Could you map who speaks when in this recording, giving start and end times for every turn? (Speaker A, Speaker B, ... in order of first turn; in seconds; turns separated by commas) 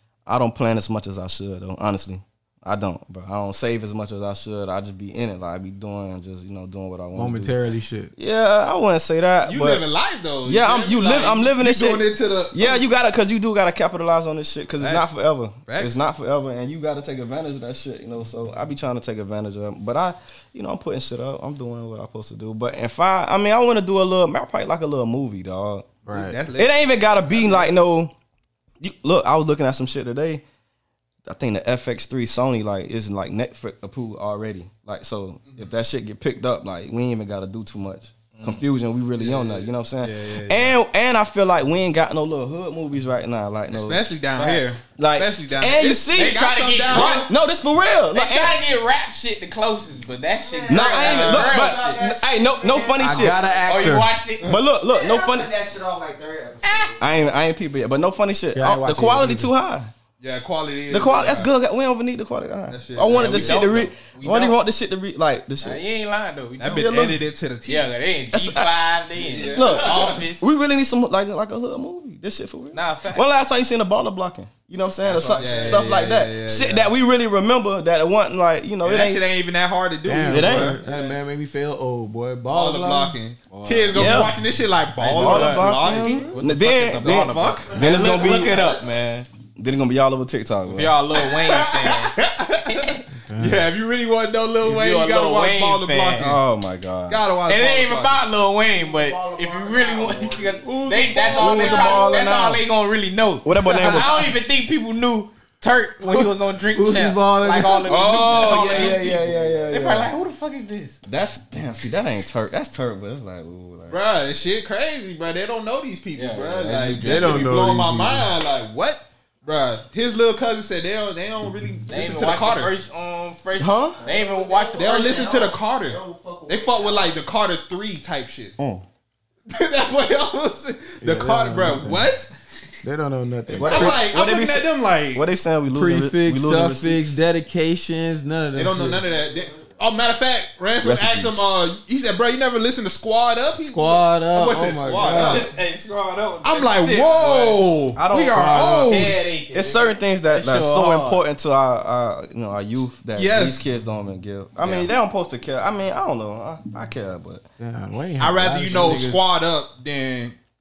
Speaker A: 0.2-7.6, Speaker B: 7.1-8.1, Speaker A: 8.2-9.9, Speaker C: 9.4-12.8, Speaker A: 10.4-25.9, Speaker C: 14.8-15.1, Speaker C: 15.7-16.0, Speaker B: 26.1-26.4, Speaker C: 26.1-27.7, Speaker A: 26.5-28.1, Speaker A: 28.8-30.4, Speaker A: 31.2-44.0, Speaker D: 38.4-38.6, Speaker C: 39.2-40.8, Speaker C: 43.7-47.3, Speaker D: 44.4-44.7, Speaker A: 45.0-48.6, Speaker D: 46.1-47.3, Speaker D: 48.1-52.0, Speaker E: 50.4-54.0, Speaker A: 50.7-53.4, Speaker C: 51.0-51.5, Speaker B: 53.0-54.1, Speaker D: 53.6-54.5, Speaker A: 54.4-55.5, Speaker E: 54.8-57.2, Speaker D: 56.6-57.0, Speaker A: 57.0-59.9, Speaker B: 58.5-59.5, Speaker C: 60.2-61.5, Speaker A: 60.9-65.8, Speaker C: 62.7-63.9, Speaker D: 63.1-64.6, Speaker D: 65.6-67.0, Speaker C: 66.6-67.9, Speaker A: 66.7-67.2, Speaker D: 67.6-70.4, Speaker A: 68.3-68.7, Speaker C: 69.2-70.2, Speaker A: 69.5-79.2, Speaker D: 72.7-73.2, Speaker D: 75.1-76.0, Speaker C: 75.1-76.9, Speaker C: 78.8-80.8, Speaker B: 80.0-83.1, Speaker A: 80.3-80.8, Speaker D: 80.9-81.1, Speaker C: 82.5-88.6, Speaker D: 83.5-84.3, Speaker A: 83.9-84.4, Speaker D: 85.0-89.3, Speaker A: 85.0-88.5, Speaker E: 87.7-88.8, Speaker A: 89.6-91.0, Speaker D: 90.7-93.0, Speaker C: 91.1-96.4, Speaker B: 93.3-93.6, Speaker D: 94.6-96.3, Speaker A: 96.2-97.2, Speaker C: 97.1-98.2, Speaker D: 97.5-111.0, Speaker E: 98.8-100.7, Speaker C: 100.7-102.2, Speaker A: 101.3-102.6, Speaker A: 103.4-104.3, Speaker B: 103.8-104.1, Speaker B: 106.0-109.1, Speaker A: 107.9-110.1, Speaker C: 108.3-109.2, Speaker A: 111.1-114.0, Speaker C: 113.9-122.7, Speaker D: 116.1-117.5, Speaker B: 117.0-118.3, Speaker D: 121.9-125.3, Speaker A: 123.6-124.0, Speaker E: 124.0-127.1, Speaker C: 124.8-128.5, Speaker A: 128.6-128.8, Speaker C: 129.5-132.3, Speaker B: 131.0-132.1, Speaker B: 132.8-134.0, Speaker A: 133.5-137.2, Speaker C: 133.6-135.2, Speaker B: 135.7-139.1, Speaker C: 138.5-145.5, Speaker A: 140.8-141.4, Speaker B: 143.7-145.5, Speaker D: 145.1-147.6, Speaker C: 146.4-149.2, Speaker A: 147.9-149.0, Speaker B: 148.3-148.8, Speaker D: 148.9-151.2, Speaker A: 149.5-157.4, Speaker C: 153.1-153.7, Speaker D: 154.6-154.9, Speaker B: 157.6-159.2, Speaker C: 158.2-160.4